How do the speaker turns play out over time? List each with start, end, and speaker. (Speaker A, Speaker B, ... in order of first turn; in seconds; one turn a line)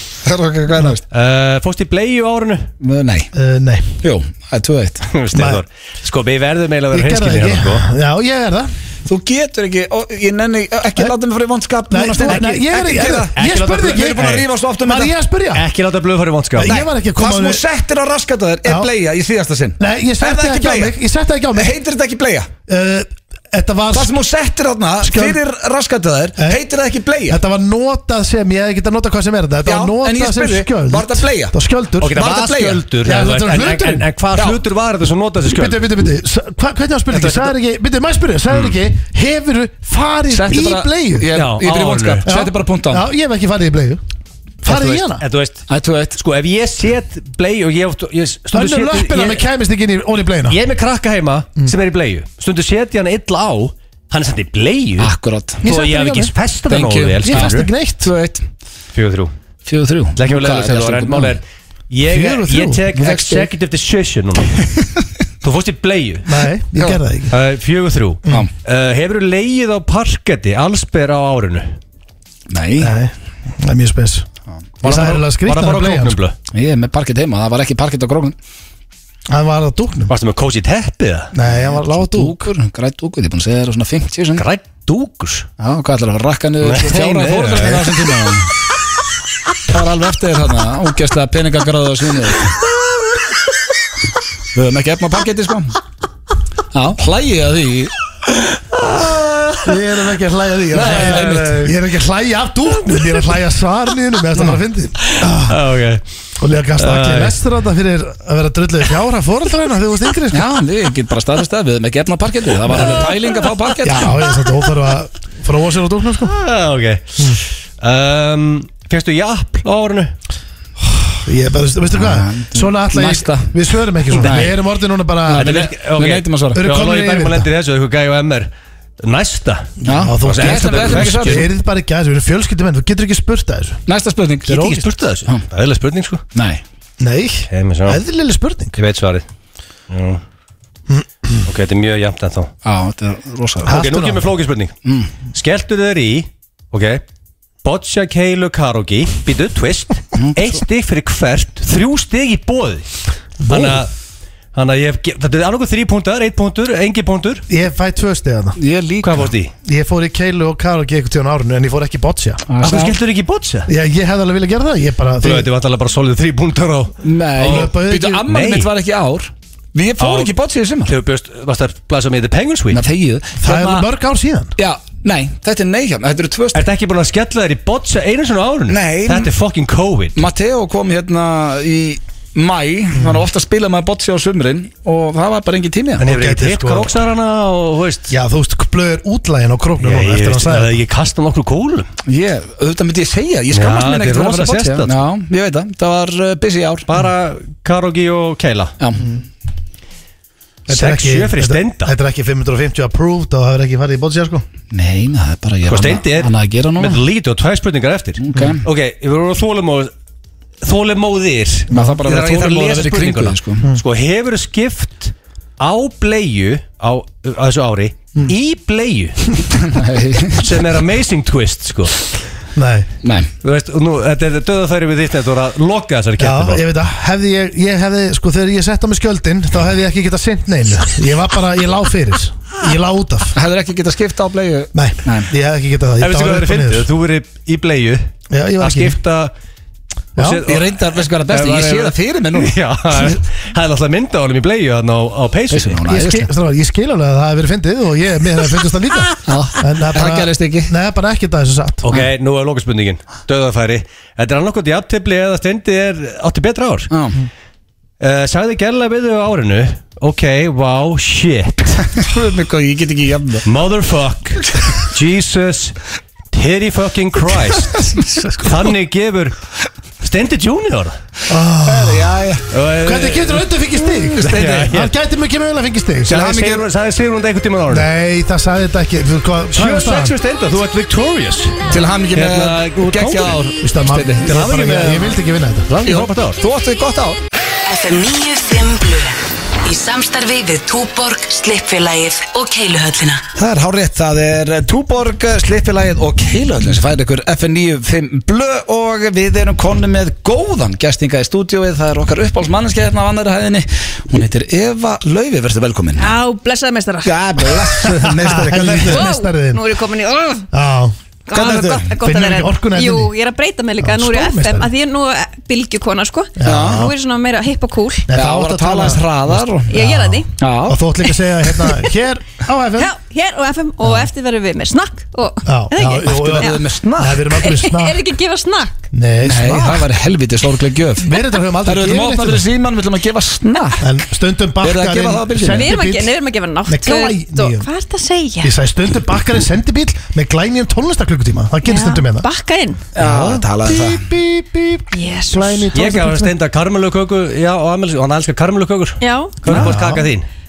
Speaker A: 0.2-1.0
Speaker B: 1.1-2.7
Speaker A: 2.8-3.3
Speaker C: 3.3-4.0
Speaker A: 4.0-5.1
Speaker B: 5.1-7.8
Speaker C: 5.3-5.6
Speaker C: 6.9-8.7
Speaker A: 9.1-15.1
Speaker C: 11.9-15.7
Speaker B: 13.4-14.5
Speaker B: 15.5-16.8
Speaker C: 16.6-17.6
Speaker A: 16.6-21.0
Speaker C: 19.8-21.8
Speaker A: 21.6-22.5
Speaker C: 22.7-24.2
Speaker A: 23.9-27.4
Speaker C: 25.0-25.4
Speaker C: 26.4-26.6
Speaker C: 27.3-32.2
Speaker A: 29.6-31.6
Speaker B: 32.0-35.9
Speaker A: 32.1-32.8
Speaker C: 33.0-34.1
Speaker A: 34.4-34.6
Speaker C: 35.5-41.3
Speaker A: 37.1-37.5
Speaker A: 40.3-43.0
Speaker B: 41.4-42.2
Speaker C: 42.2-44.0
Speaker C: 44.6-45.2
Speaker B: 44.6-49.5
Speaker A: 45.7-46.2
Speaker C: 48.5-50.6
Speaker B: 50.5-55.1
Speaker A: 55.0-55.6
Speaker C: 55.6-56.3
Speaker B: 55.6-57.7
Speaker A: 56.7-58.5
Speaker C: 57.2-58.1
Speaker B: 58.9-59.3
Speaker A: 59.7-61.4
Speaker B: 60.2-64.6
Speaker C: 62.1-62.9
Speaker A: 63.0-63.5
Speaker B: 65.4-66.3
Speaker C: 66.3-67.4
Speaker B: 67.3-71.8
Speaker A: 72.5-72.9
Speaker C: 72.8-74.3
Speaker C: 74.8-76.2
Speaker B: 74.8-76.3
Speaker A: 76.5-78.3
Speaker C: 79.3-80.1
Speaker B: 80.1-81.3
Speaker C: 81.3-82.5
Speaker A: 81.5-84.5
Speaker B: 84.4-85.5
Speaker A: 85.6-88.5
Speaker B: 86.6-88.3
Speaker A: 89.7-92.5
Speaker A: 94.5-95.8
Speaker A: 96.7-97.9
Speaker B: 98.5-99.8
Speaker C: 99.6-105.6
Speaker B: 100.7-101.7
Speaker A: 100.8-101.6
Speaker B: 102.9-103.2
Speaker B: 105.1-106.0
Speaker C: 106.4-110.5
Speaker B: 106.8-107.4
Speaker A: 110.3-114.1
Speaker C: 112.7-113.0
Speaker B: 112.8-113.2
Speaker C: 113.8-116.3
Speaker B: 116.2-120.1
Speaker C: 121.3-125.6
Speaker A: 121.9-123.5
Speaker A: 124.1-124.6
Speaker A: 125.3-126.6
Speaker B: 125.3-128.5
Speaker C: 126.5-127.5
Speaker B: 129.0-131.5
Speaker A: 129.8-131.4
Speaker C: 129.8-133.8
Speaker A: 133.9-134.8
Speaker B: 134.5-136.2
Speaker C: 134.5-134.9
Speaker A: 136.3-136.6
Speaker C: 137.0-138.8
Speaker B: 137.5-138.0
Speaker B: 138.8-139.2
Speaker B: 139.9-140.2
Speaker C: 140.9-141.4
Speaker B: 141.4-142.5
Speaker A: 142.6-143.9
Speaker C: 143.7-144.3
Speaker B: 143.7-144.7
Speaker A: 144.8-145.1
Speaker B: 145.3-147.0
Speaker B: 147.6-152.9
Speaker A: 150.2-150.6
Speaker C: 153.4-153.8
Speaker B: 153.4-153.9
Speaker B: 154.5-157.4
Speaker C: 157.5-158.6
Speaker A: 158.6-159.3
Speaker B: 159.0-159.5
Speaker C: 159.6-162.4
Speaker A: 162.5-163.0
Speaker B: 162.6-163.7
Speaker C: 163.7-165.5
Speaker B: 165.2-167.7
Speaker A: 167.0-170.9
Speaker C: 167.4-168.2
Speaker B: 168.2-168.7
Speaker B: 170.0-170.3
Speaker B: 170.9-172.8
Speaker A: 172.7-173.9
Speaker C: 173.4-174.6
Speaker A: 174.6-176.6
Speaker B: 176.5-180.2
Speaker A: 178.7-179.3
Speaker A: 180.2-186.1
Speaker C: 182.9-183.3
Speaker B: 186.0-188.1
Speaker C: 186.0-186.9
Speaker C: 188.1-190.8
Speaker B: 189.8-191.9
Speaker A: 192.1-196.9
Speaker B: 193.5-194.9
Speaker B: 196.9-198.7
Speaker A: 198.8-199.1
Speaker C: 200.7-204.4
Speaker B: 200.7-201.9
Speaker A: 204.7-207.0
Speaker B: 205.7-209.9
Speaker A: 208.2-208.6
Speaker B: 210.6-219.5
Speaker A: 211.7-213.7
Speaker A: 219.6-220.5
Speaker B: 220.3-222.1
Speaker C: 222.6-222.9
Speaker A: 223.0-223.3
Speaker B: 223.4-226.6
Speaker C: 226.2-233.4
Speaker A: 233.3-235.3
Speaker C: 234.7-236.9
Speaker B: 236.0-239.3
Speaker C: 238.3-239.0
Speaker B: 240.1-245.8
Speaker C: 240.2-240.4
Speaker A: 240.4-242.6
Speaker A: 245.5-246.3
Speaker C: 245.9-251.9
Speaker A: 249.2-250.7
Speaker B: 251.8-256.9
Speaker A: 256.9-257.2
Speaker B: 258.0-262.0
Speaker A: 262.0-263.5
Speaker B: 263.4-265.8
Speaker B: 266.3-269.3
Speaker B: 270.0-270.9
Speaker C: 271.3-272.2
Speaker A: 271.6-272.5
Speaker B: 272.5-273.5
Speaker C: 272.8-276.3
Speaker A: 274.0-274.7
Speaker B: 274.2-274.9
Speaker B: 276.1-277.9
Speaker A: 276.1-276.6
Speaker C: 277.7-280.2
Speaker B: 279.6-283.4
Speaker A: 281.7-284.9
Speaker C: 283.6-285.7
Speaker B: 284.3-284.8
Speaker B: 285.7-286.4
Speaker A: 285.8-287.2
Speaker D: 287.7-293.2
Speaker A: 293.3-306.2
Speaker E: 306.0-307.2
Speaker A: 307.0-309.1
Speaker C: 307.8-309.7
Speaker E: 308.9-310.5
Speaker C: 310.5-313.1
Speaker E: 311.3-318.1
Speaker A: 311.4-311.8
Speaker C: 313.8-314.7
Speaker C: 316.4-316.9
Speaker A: 316.4-316.9
Speaker C: 318.1-322.9
Speaker A: 318.1-319.7
Speaker E: 319.7-320.3
Speaker A: 320.3-320.8
Speaker E: 322.8-326.6
Speaker C: 323.8-324.1
Speaker C: 325.4-328.0
Speaker A: 326.1-327.3
Speaker E: 327.4-328.9
Speaker C: 328.9-329.9
Speaker A: 329.2-333.8
Speaker C: 331.0-332.5
Speaker E: 333.4-333.8
Speaker C: 333.8-336.1
Speaker A: 334.6-335.7
Speaker E: 335.5-338.5
Speaker C: 336.7-337.7
Speaker C: 338.4-342.3
Speaker E: 341.6-342.9
Speaker A: 342.9-344.1
Speaker C: 343.0-346.3
Speaker E: 344.9-345.7
Speaker B: 345.7-350.3
Speaker E: 349.0-349.5
Speaker C: 349.5-350.1